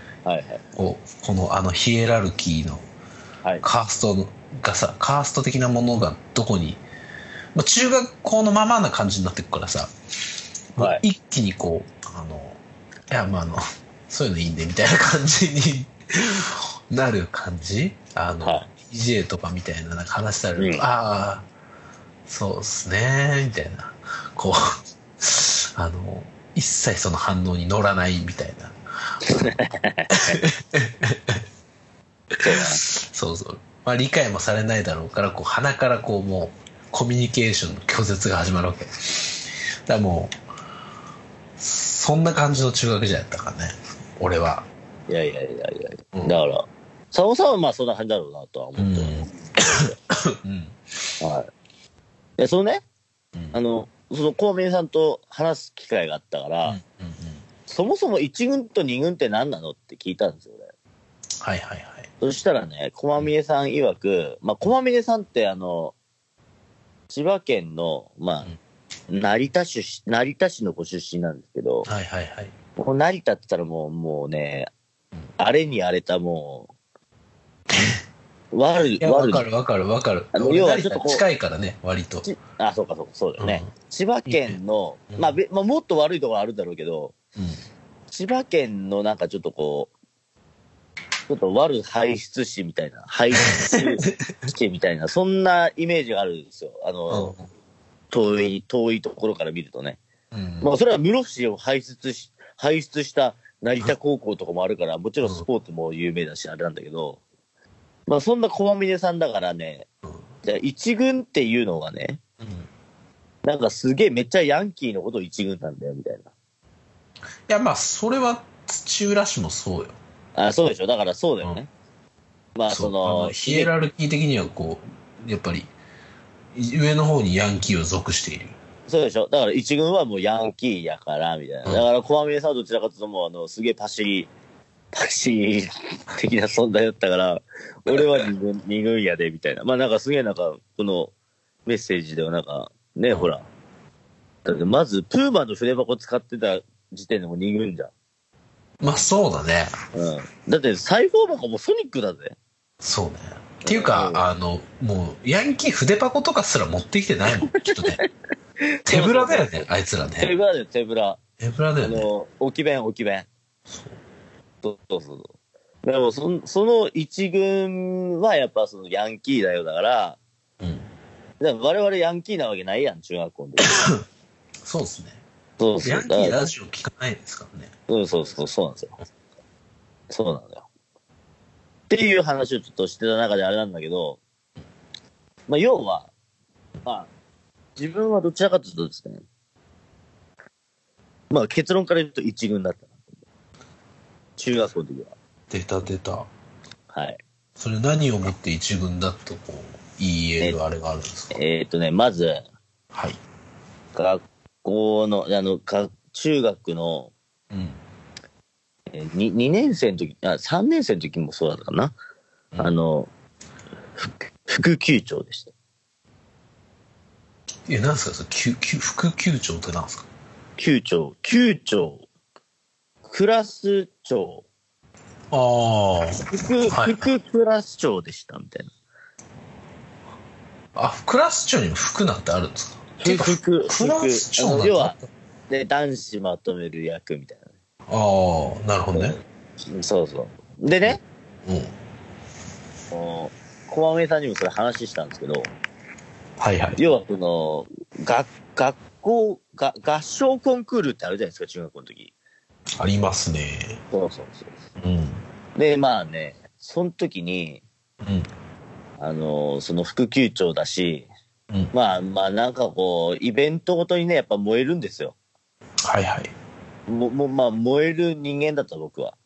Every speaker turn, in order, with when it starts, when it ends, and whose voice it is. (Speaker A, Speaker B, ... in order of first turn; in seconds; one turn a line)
Speaker A: 0.2-0.6
Speaker B: 0.8-2.8
Speaker B: 3.6-6.8
Speaker B: 7.5-9.9
Speaker B: 10.8-21.5
Speaker A: 10.8-11.0
Speaker A: 18.4-18.7
Speaker A: 20.6-20.8
Speaker B: 22.3-28.7
Speaker A: 29.3-30.4
Speaker B: 30.1-31.4
Speaker A: 32.4-32.8
Speaker B: 32.4-40.3
Speaker B: 41.6-44.7
Speaker A: 45.1-50.0
Speaker B: 46.1-46.4
Speaker B: 48.8-50.8
Speaker A: 51.2-51.5
Speaker A: 52.4-52.8
Speaker A: 53.5-56.8
Speaker B: 56.6-57.4
Speaker A: 57.7-60.7
Speaker B: 61.4-62.1
Speaker A: 62.2-65.9
Speaker A: 67.1-68.5
Speaker A: 69.1-71.9
Speaker B: 71.8-72.5
Speaker A: 72.8-74.7
Speaker A: 75.4-76.7
Speaker B: 77.7-78.0
Speaker A: 78.5-79.4
Speaker B: 79.0-82.3
Speaker A: 80.3-81.2
Speaker A: 82.2-87.2
Speaker B: 83.4-83.7
Speaker B: 84.3-84.6
Speaker B: 85.1-85.3
Speaker A: 88.1-89.9
Speaker A: 91.3-97.3
Speaker B: 93.5-94.3
Speaker B: 97.1-97.4
Speaker A: 98.1-100.0
Speaker B: 100.3-100.7
Speaker A: 100.6-107.2
Speaker A: 108.1-109.9
Speaker A: 110.4-112.2
Speaker B: 112.4-112.7
Speaker A: 113.4-116.3
Speaker B: 117.5-120.0
Speaker A: 120.3-121.7
Speaker A: 122.5-123.7
Speaker B: 122.7-125.7
Speaker B: 126.5-128.5
Speaker A: 128.9-134.3
Speaker A: 134.9-141.1
Speaker A: 141.7-143.5
Speaker A: 144.4-147.9
Speaker B: 148.8-149.7
Speaker A: 149.9-152.3
Speaker B: 152.8-158.0
Speaker A: 153.6-154.2
Speaker A: 157.4-158.0
Speaker A: 158.7-159.7
Speaker B: 158.8-160.3
Speaker A: 160.2-161.2
Speaker B: 161.4-162.1
Speaker A: 161.8-163.3
Speaker B: 163.7-164.0
Speaker A: 164.6-165.3
Speaker A: 165.8-170.2
Speaker B: 170.6-170.9
Speaker A: 171.4-173.9
Speaker B: 173.7-174.0
Speaker B: 174.6-175.2
Speaker A: 175.6-176.4
Speaker B: 175.8-177.7
Speaker A: 177.9-179.0
Speaker A: 180.1-180.6
Speaker A: 181.9-184.2
Speaker A: 185.5-186.1
Speaker A: 187.8-189.2
Speaker A: 191.3-192.9
Speaker A: 194.4-195.1
Speaker B: 195.5-196.3
Speaker A: 196.9-197.2
Speaker B: 197.6-201.4
Speaker A: 201.3-202.4
Speaker B: 202.9-203.2
Speaker A: 203.9-207.1
Speaker B: 207.5-207.8
Speaker A: 208.9-211.9
Speaker A: 212.6-213.1
Speaker A: 214.0-215.5
Speaker B: 217.7-220.1
Speaker A: 220.6-222.1
Speaker A: 223.1-224.4
Speaker B: 225.3-227.1
Speaker A: 226.3-228.7
Speaker B: 230.7-235.1
Speaker A: 233.0-235.0
Speaker A: 235.5-237.5
Speaker B: 237.9-239.2
Speaker A: 238.9-241.0
Speaker B: 240.8-241.7
Speaker A: 242.9-245.5
Speaker B: 246.4-246.8
Speaker A: 246.8-252.1
Speaker B: 252.8-253.8
Speaker A: 253.9-254.6
Speaker B: 254.8-255.2
Speaker A: 255.5-257.6
Speaker B: 258.0-258.3
Speaker A: 259.0-261.1
Speaker A: 261.7-265.1
Speaker B: 265.8-266.3
Speaker A: 266.9-269.1